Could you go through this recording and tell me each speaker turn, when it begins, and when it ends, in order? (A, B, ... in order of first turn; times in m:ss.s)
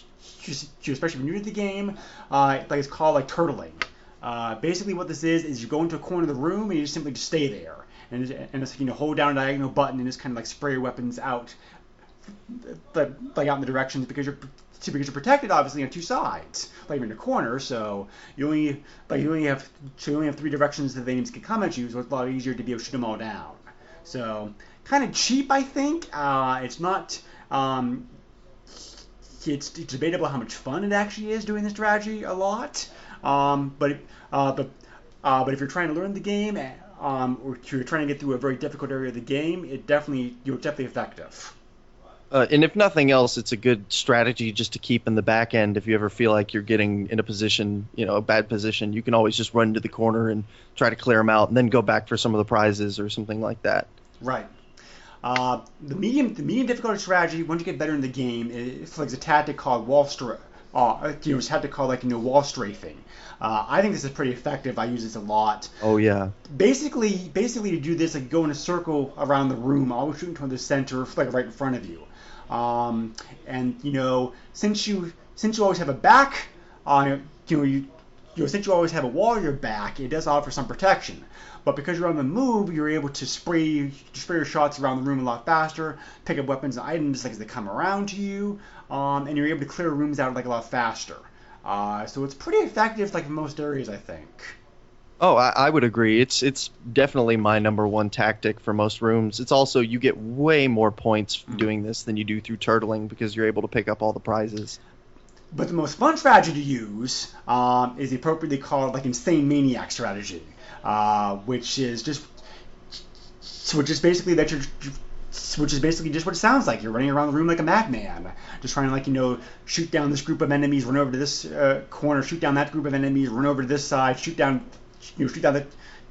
0:00.2-0:11.6 A
0:12.5-0:28.1 A
0:28.8-0:34.7 A
0:35.2-0:41.6 A
0:42.3-0:53.9 B
0:54.2-0:54.5 A
0:55.2-1:05.8 A
1:05.8-1:06.3 B
1:06.5-1:34.6 A
1:35.2-1:44.8 B
1:45.5-1:52.3 A
1:52.9-2:05.7 A